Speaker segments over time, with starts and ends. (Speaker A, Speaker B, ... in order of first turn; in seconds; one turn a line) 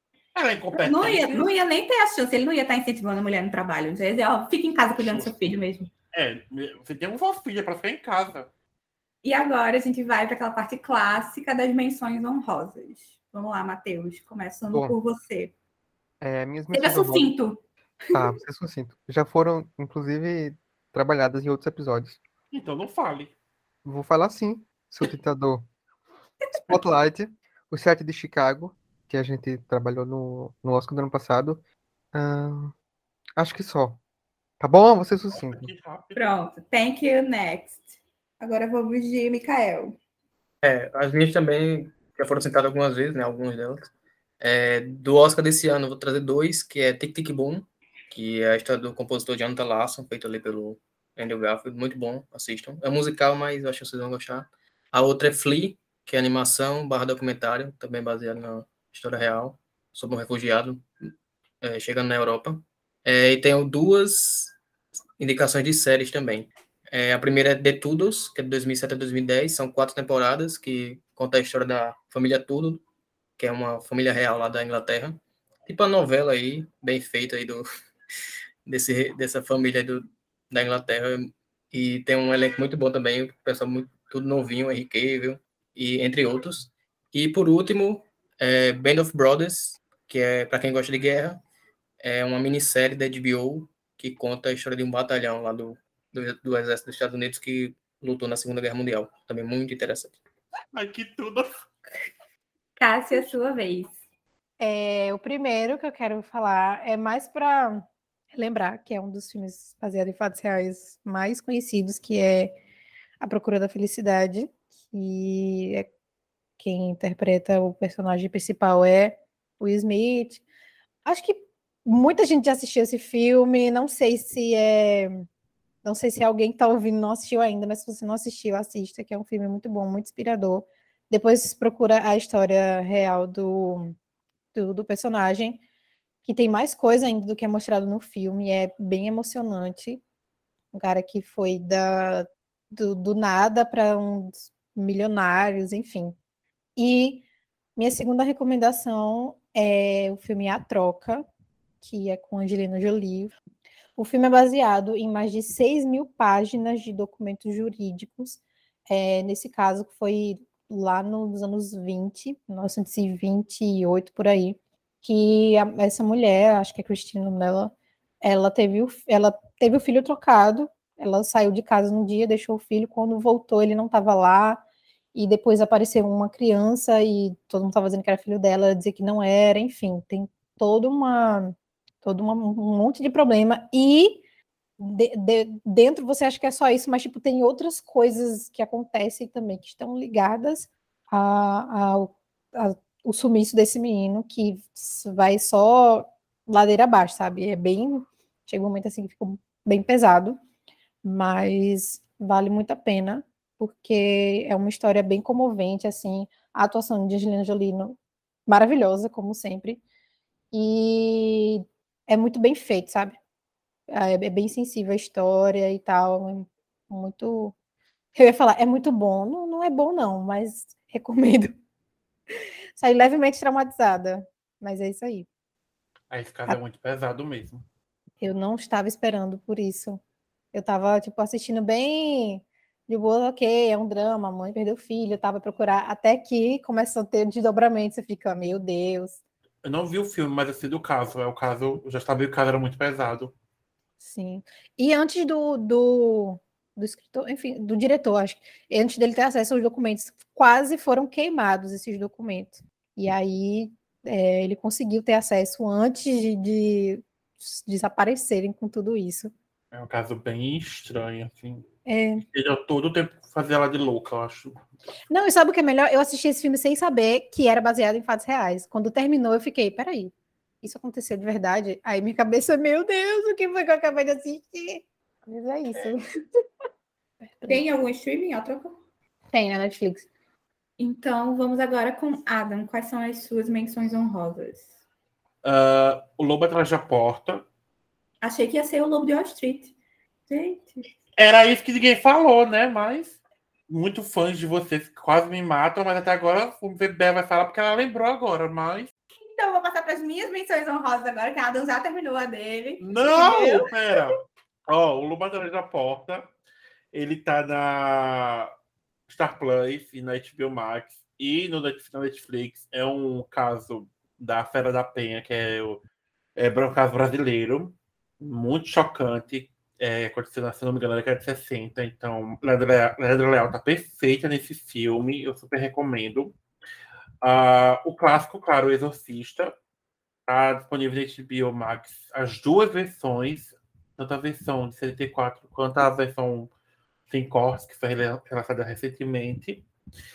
Speaker A: 0.3-1.5
Speaker B: 0.7-5.9
Speaker A: 5.0-5.5
Speaker A: 6.1-8.5
Speaker B: 9.2-15.5
Speaker C: 16.2-17.3
Speaker B: 16.7-18.2
Speaker C: 18.1-22.2
Speaker A: 22.5-23.3
Speaker C: 23.8-25.7
Speaker C: 26.7-31.6
Speaker C: 32.1-32.7
Speaker C: 33.4-34.0
Speaker C: 34.6-35.7
Speaker A: 35.3-36.2
Speaker B: 36.1-40.0
Speaker D: 40.6-43.8
Speaker D: 44.4-60.9
Speaker D: 61.6-64.6
Speaker D: 65.2-72.8
Speaker D: 73.4-77.7
Speaker D: 78.7-91.4
Speaker D: 92.0-100.2
Speaker A: 100.7-101.7
Speaker B: 102.8-104.0
Speaker E: 104.6-112.6
Speaker E: 113.2-115.9
Speaker E: 116.6-120.4
Speaker E: 121.0-125.2
Speaker E: 125.8-133.9
Speaker E: 134.5-135.6
Speaker E: 136.2-140.0
Speaker E: 140.7-146.2
Speaker E: 146.8-147.2
Speaker E: 147.8-151.2
Speaker E: 151.8-153.3
Speaker E: 154.0-174.6
Speaker E: 175.1-184.2
Speaker E: 184.8-200.4
Speaker E: 201.0-209.8
Speaker E: 210.5-213.2
Speaker E: 213.9-217.5
Speaker E: 218.1-221.6
Speaker E: 222.7-225.3
Speaker A: 226.1-227.6
Speaker E: 228.2-230.0
Speaker E: 230.5-239.2
Speaker A: 239.6-243.3
Speaker E: 244.0-259.3
Speaker A: 259.7-261.7
Speaker E: 261.9-262.2
Speaker A: 262.2-264.6
Speaker E: 265.1-276.0
Speaker E: 277.2-277.6
Speaker B: 277.4-278.7
Speaker E: 279.3-280.1
Speaker B: 280.8-284.7
Speaker A: 285.4-287.4
Speaker B: 288.2-289.7
Speaker B: 290.3-290.8
Speaker A: 291.2-298.9
Speaker B: 299.2-304.1
Speaker A: 302.8-304.2
Speaker A: 304.7-306.3
Speaker A: 306.9-308.5
Speaker A: 309.1-315.8
Speaker A: 316.4-326.3
Speaker A: 327.2-329.6
Speaker A: 330.3-336.5
Speaker A: 337.1-339.6